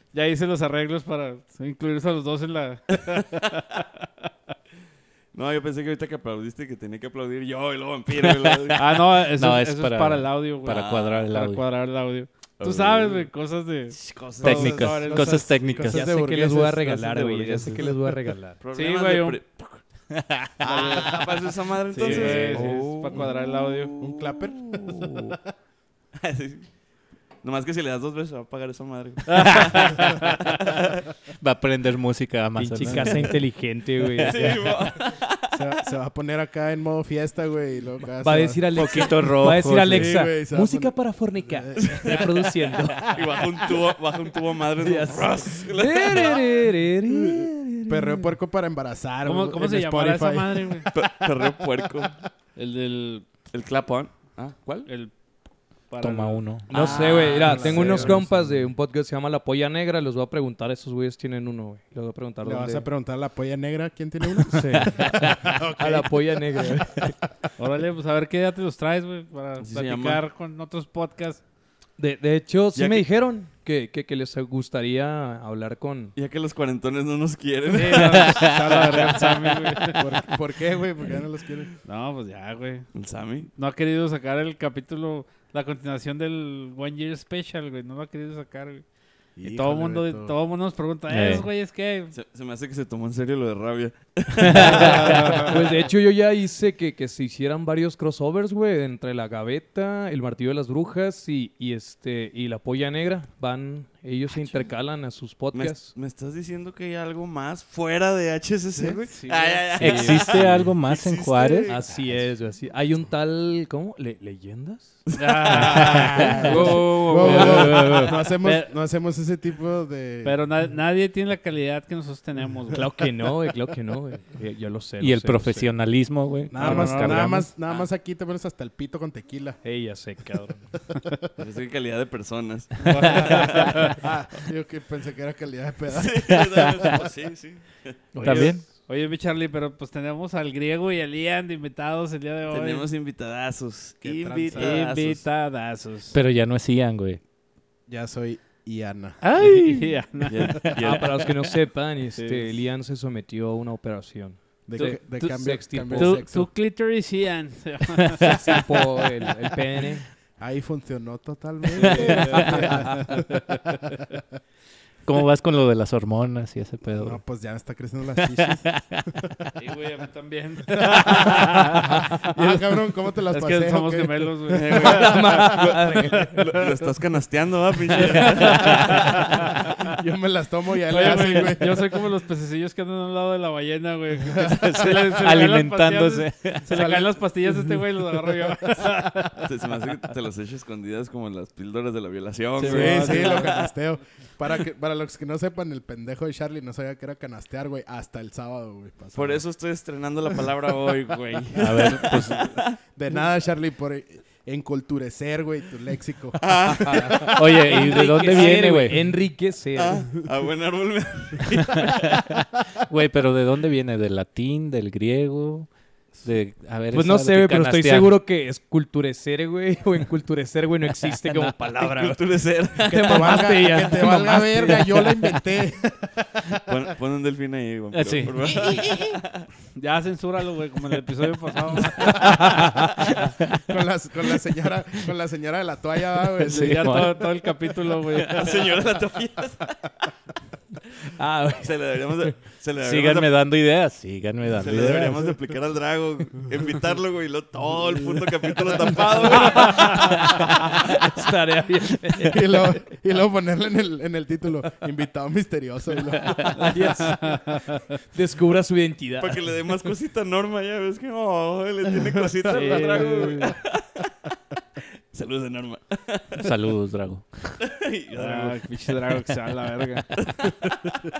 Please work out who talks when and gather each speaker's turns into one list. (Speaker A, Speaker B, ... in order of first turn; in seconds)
Speaker A: 0.1-3.8, 8.8-15.6, 18.7-19.4, 20.6-21.2, 21.9-23.9, 29.3-30.6, 49.2-50.9, 52.5-53.3, 54.9-55.1, 55.9-56.4, 67.6-71.4, 77.7-80.1, 81.8-82.8, 83.5-88.8, 89.4-92.1, 94.8-95.6, 108.8-110.1, 115.1-117.7, 118.4-118.7, 120.2-122.9, 126.6-127.4, 132.9-134.1, 138.2-142.8, 144.5-146.2, 149.6-150.7, 152.2-152.5, 154.8-158.3, 161.8-163.4, 169.6-172.0, 173.3-176.6, 178.1-179.9, 180.9-189.5, 192.6-193.7, 229.8-232.6, 236.4-238.7, 249.7-249.9, 257.2-257.8, 262.5-263.6, 268.1-270.1
Speaker B: 5.3-8.8, 10.7-11.3, 12.6-13.3, 13.9-14.8, 18.6-19.8, 20.6-24.9, 26.2-26.7, 27.4-31.0, 34.2-35.8, 41.8-42.3, 43.1-46.4, 50.9-52.2, 53.5-54.9, 56.7-58.1, 69.6-70.2, 72.8-73.0, 76.2-79.4, 82.9-83.5, 92.1-95.5, 105.5-111.8, 115.1-118.0, 131.4-133.9, 135.9-138.0, 142.5-145.2, 150.3-151.2, 174.5-175.8, 176.3-179.2, 189.4-193.6, 199.1-202.7, 206.3-207.8, 209.8-212.2, 221.8-223.4, 226.7-229.4, 238.3-239.9, 241.6-243.3, 244.6-250.1, 259.2-264.1, 265.1-266.5, 267.6-269.0, 270.2-270.5
Speaker C: 8.2-11.6, 14.4-16.1, 20.2-20.5, 22.0-22.7, 29.4-30.1, 31.4-33.4, 38.7-40.1, 56.0-56.7, 57.6-58.2, 78.1-78.8, 91.1-91.5, 94.4-95.4, 109.8-111.7, 115.5-116.4, 125.0-127.5, 133.0-133.3, 138.2-138.6, 146.1-147.2, 149.2-149.9, 165.1-167.2, 168.4-169.0, 178.3-178.8, 184.4-186.9, 201.6-202.4, 207.3-209.0, 211.5-212.3, 212.8-215.7, 216.2-218.1, 227.9-229.1, 236.5-237.3, 242.8-245.2, 266.4-267.6
Speaker D: 14.5-18.1, 24.0-25.5, 35.5-43.8, 47.1-52.1, 57.4-58.7, 62.4-66.4, 80.0-81.7, 89.4-90.3, 115.7-120.4, 126.5-129.6, 133.7-137.1, 144.0-144.8, 147.9-149.2, 154.7-156.5, 160.4-164.2, 167.0-168.7, 170.7-174.8, 179.4-182.0, 184.2-185.2, 186.7-189.3, 192.6-199.4, 201.7-207.3, 222.9-226.8, 232.0-237.0, 244.7-245.1, 252.2-256.9
Speaker E: 15.9-18.6, 22.5-23.0, 32.5-34.7, 38.2-43.1, 44.8-48.3, 56.7-62.9, 64.5-65.2, 65.8-67.1, 72.0-76.1, 94.7-105.9, 109.8-110.2, 111.7-115.0, 116.4-118.2, 122.7-125.7, 129.6-130.7, 138.1-138.6, 150.8-156.2, 158.2-160.0, 162.0-162.9, 174.6-176.6, 207.6-210.1, 216.9-222.2, 222.8-225.4, 232.2-232.9, 241.2-241.7, 249.3-252.5, 256.6-257.4, 258.1-259.4